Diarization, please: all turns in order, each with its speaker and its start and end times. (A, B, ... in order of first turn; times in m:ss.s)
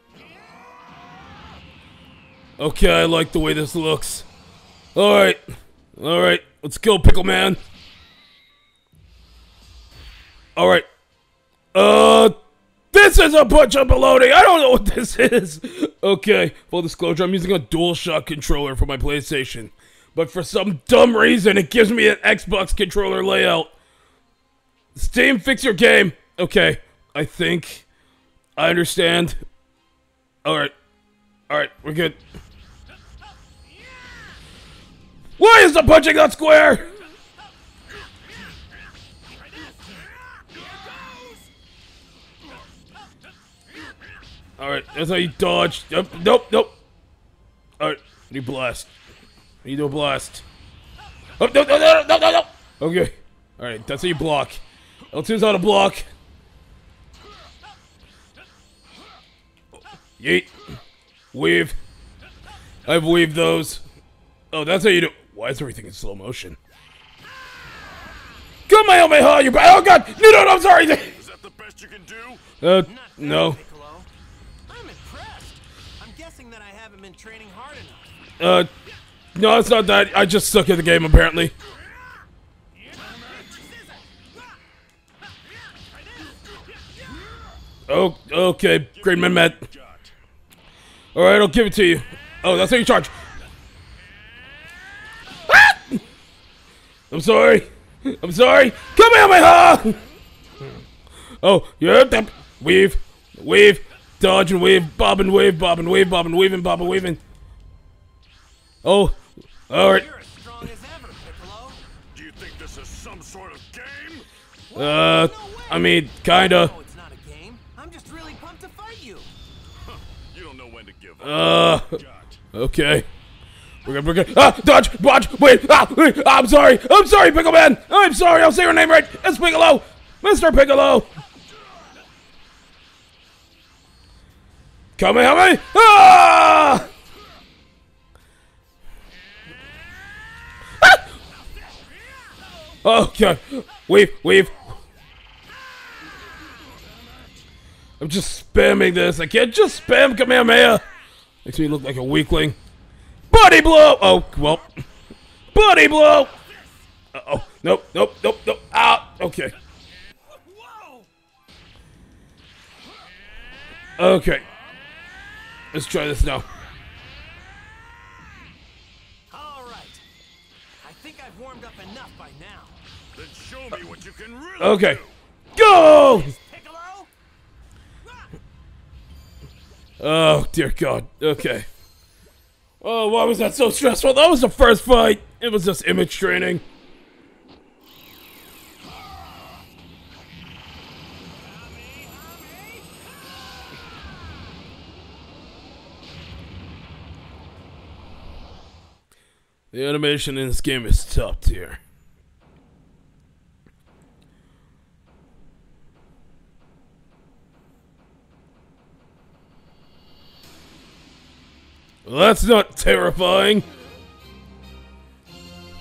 0:02.6-0:04.3 A
0:04.9-0:07.6 A
0:10.6-0:10.9 A
0:11.7-0:12.4 A
0:12.9-0:23.7 A
0:24.9-0:27.8 A
0:28.6-0:29.4 A
0:30.4-0:30.7 A
0:31.5-0:32.2 A
0:35.4-0:37.0 A
0:44.6-0:46.8 A
0:47.8-0:48.9 A
0:49.6-0:50.4 A
0:51.4-0:56.1 A
1:00.2-1:00.5 A
1:01.3-1:01.8 A
1:02.8-1:03.8 A
1:04.5-1:06.6 A
1:08.7-1:11.2 A
1:11.1-1:12.5 B
1:12.6-1:13.6 A
1:12.8-1:14.1 C
1:14.7-1:18.2 C
1:18.4-1:18.7 A
1:19.3-1:21.5 A
1:22.8-1:24.0 C
1:26.0-1:26.9 C
1:27.9-1:29.6 A
1:28.9-1:30.1 B
1:31.1-1:33.1 A
1:35.5-1:36.0 A
1:37.1-1:40.0 A
1:41.4-1:47.2 A
1:48.8-1:50.1 A
1:49.8-1:51.8 C
1:52.1-1:54.3 B
1:54.7-1:59.3 C
1:54.7-1:56.7 A
1:59.8-2:02.4 B
2:01.2-2:02.0 A
2:02.5-2:03.1 A
2:03.8-2:11.1 A
2:15.0-2:16.9 A
2:22.3-2:22.8 C
2:22.8-2:24.6 A
2:28.0-2:30.8 A
2:31.4-2:32.6 A
2:33.3-2:34.8 A
2:35.5-2:36.4 A
2:36.5-2:36.8 C
2:37.1-2:39.5 A
2:40.4-2:41.1 C
2:44.0-2:44.4 A
2:45.7-2:46.5 A
2:49.3-2:50.0 C
2:50.8-2:52.8 C
2:53.1-2:55.2 B
2:54.6-2:55.0 A
2:55.6-2:56.3 A
2:55.6-2:57.1 C
2:58.0-2:58.3 C
3:00.0-3:01.7 A
3:02.8-3:06.6 A
3:11.3-3:13.1 C
3:19.7-3:21.8 A
3:32.0-3:33.7 A